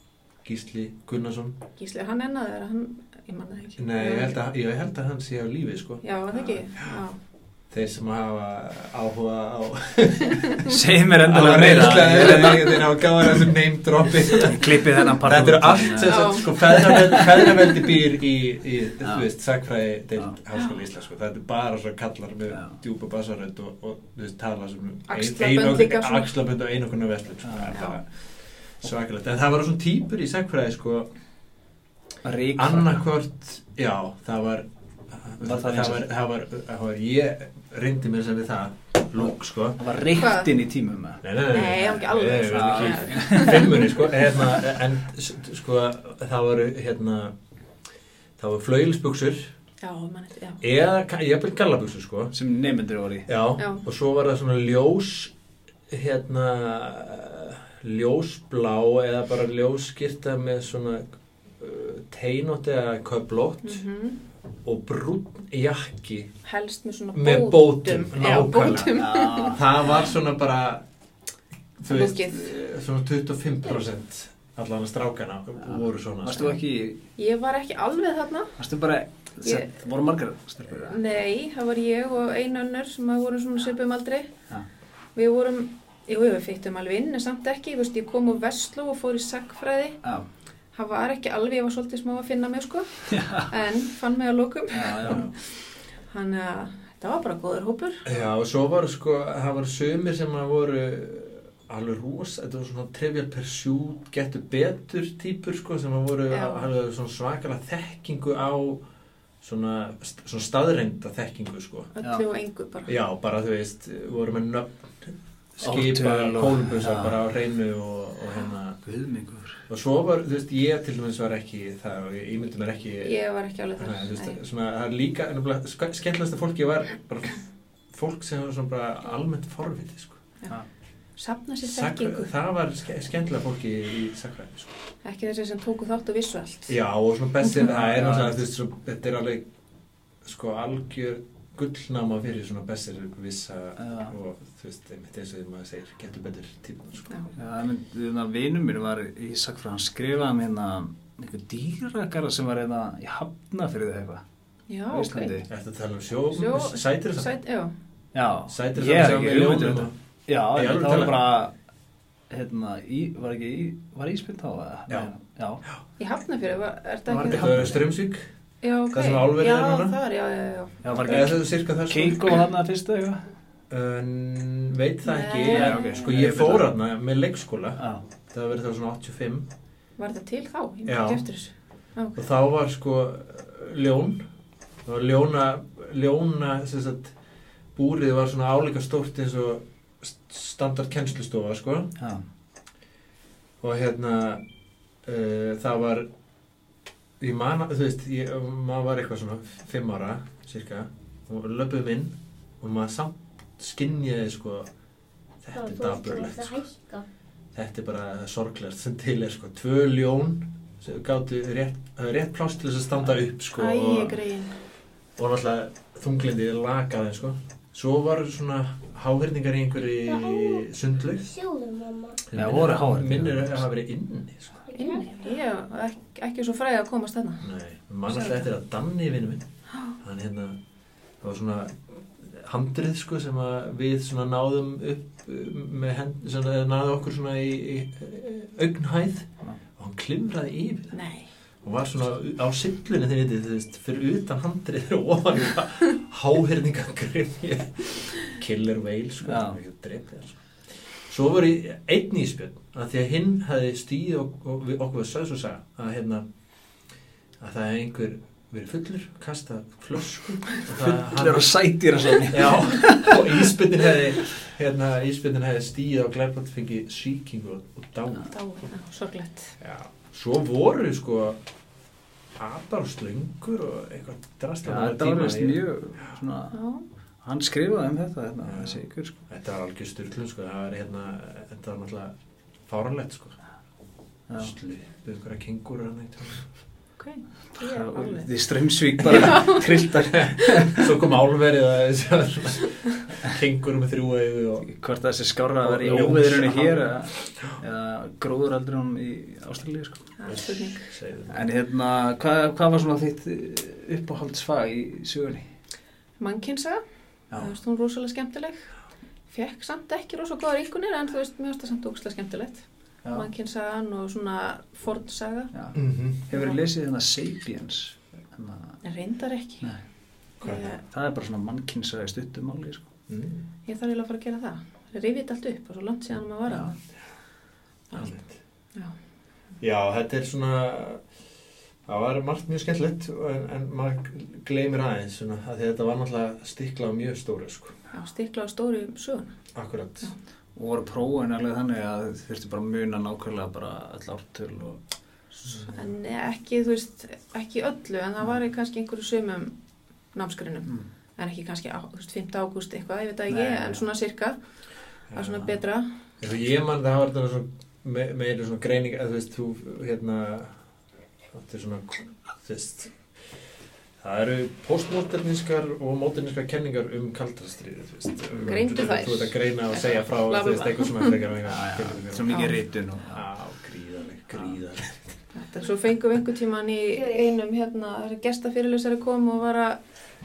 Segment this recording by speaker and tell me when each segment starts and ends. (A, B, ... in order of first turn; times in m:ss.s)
0:00.4-0:01.6 A
0:01.8-0:04.3 B
0:03.8-0:06.9 A
0:06.0-0:07.2 B
0:07.7-0:31.1 A
0:10.4-0:10.7 B
0:10.6-0:13.1 C
0:14.4-0:17.6 C
0:16.0-0:17.2 B
0:19.0-0:19.3 C
0:25.1-0:26.3 B
0:27.4-0:27.8 C
0:27.7-0:28.0 B
0:32.2-0:33.0 C
0:32.6-0:39.9 A
0:35.4-0:36.1 C
0:39.8-0:41.2 C
0:40.2-0:40.5 B
0:41.2-0:47.3 A
0:41.5-0:44.4 B
0:42.0-0:43.7 C
0:48.4-0:49.5 A
0:49.8-0:50.6 B
0:50.6-0:52.3 A
0:52.3-0:53.3 C
0:53.3-0:55.3 A
0:55.9-1:03.8 A
1:03.6-1:04.2 B
1:04.6-1:06.3 A
1:06.4-1:09.6 B
1:07.1-1:10.8 A
1:08.9-1:09.6 C
1:11.8-1:16.5 A
1:11.8-1:12.5 B
1:15.7-1:17.0 C
1:17.2-1:18.5 B
1:18.6-1:21.0 C
1:19.4-1:19.7 B
1:20.8-1:24.3 B
1:25.2-1:30.0 B
1:30.7-1:35.4 B
1:33.1-1:33.5 C
1:34.7-1:35.2 C
1:35.0-1:35.3 A
1:36.0-1:38.0 B
1:38.0-1:48.8 A
1:46.3-1:46.7 B
1:49.4-1:51.9 A
1:52.0-1:52.9 B
1:52.8-1:58.8 A
1:55.6-1:57.2 C
1:58.8-1:59.6 C
1:59.7-2:03.2 A
2:03.0-2:04.4 B
2:03.8-2:10.2 A
2:11.2-2:12.2 B
2:11.6-2:14.7 A
2:15.0-2:16.7 B
2:16.7-2:19.5 A
2:17.6-2:18.4 C
2:20.2-2:27.2 A
2:23.8-2:24.1 C
2:27.4-2:34.2 C
2:34.7-2:35.4 B
2:34.9-2:35.5 C
2:35.5-2:37.3 A
2:36.3-2:37.7 B
2:38.1-2:41.5 C
2:38.5-2:39.9 A
2:40.5-2:41.2 A
2:42.3-2:45.6 C
2:46.0-2:47.5 B
2:47.1-2:47.9 C
2:47.3-2:48.3 A
2:48.6-2:51.3 B
2:48.9-2:50.0 A
2:50.8-2:53.2 C
2:51.0-2:52.4 A
2:53.7-2:59.5 A
2:55.0-2:56.1 B
2:55.5-2:56.7 C
3:00.0-3:02.2 B
3:00.8-3:01.2 A
3:02.2-3:04.2 A
3:04.8-3:07.1 A
3:07.8-3:11.9 A
3:13.6-3:14.4 A
3:15.0-3:16.1 A
3:17.2-3:24.7 A
3:25.4-3:26.6 A
3:25.5-3:27.0 D
3:27.5-3:34.2 A
3:33.5-3:34.6 B
3:35.2-3:41.3 A
3:39.9-3:42.2 D
3:42.3-3:44.6 A
3:42.4-3:43.6 C
3:44.7-3:45.4 D
3:44.7-3:47.5 B
3:47.4-3:49.4 A
3:48.1-3:48.4 B
3:50.0-3:50.6 A
3:51.2-4:00.9 A
4:00.9-4:01.3 B
4:01.6-4:10.4 A
4:09.2-4:09.6 C
4:11.0-4:16.2 A
4:17.4-4:21.5 A
4:20.7-4:23.5 C
4:22.3-4:28.3 A
4:28.3-4:29.5 B
4:29.6-4:31.4 A
4:32.4-4:35.6 A
4:34.6-4:36.6 C
4:36.5-4:36.8 B
4:37.2-4:39.2 C
4:38.4-4:42.1 A
4:42.7-4:43.4 A
4:44.4-4:46.5 A
4:47.0-4:48.3 B
4:47.6-4:50.9 C
4:49.1-4:49.6 B
4:50.1-4:54.7 A
4:54.7-5:00.1 C
4:55.6-4:57.6 A
5:00.2-5:00.9 B
5:00.2-5:01.4 A
5:01.3-5:05.4 C
5:06.2-5:06.8 B
5:07.4-5:08.7 B
5:09.3-5:15.5 B
5:15.7-5:16.2 A
5:16.3-5:18.8 C
5:16.3-5:16.6 B
5:18.8-5:19.7 B
5:20.4-5:20.8 B
5:20.8-5:22.9 C
5:23.1-5:23.4 A
5:23.6-5:26.7 B
5:26.5-5:26.7 C
5:27.9-5:28.3 A
5:29.6-5:31.0 A
5:31.8-5:37.8 A
5:37.9-5:39.3 B
5:39.5-5:40.1 A
5:40.5-5:44.8 C
5:45.3-5:49.5 B
5:45.6-5:45.9 A
5:50.1-5:54.4 B
5:53.3-5:53.8 C
5:55.1-5:55.4 A
5:55.1-5:55.9 B
5:56.2-6:00.6 A
6:01.3-6:03.0 A
6:04.0-6:12.3 A
6:08.4-6:11.2 B
6:11.4-6:13.2 C
6:12.3-6:12.6 B
6:13.1-6:15.1 A
6:15.3-6:19.8 B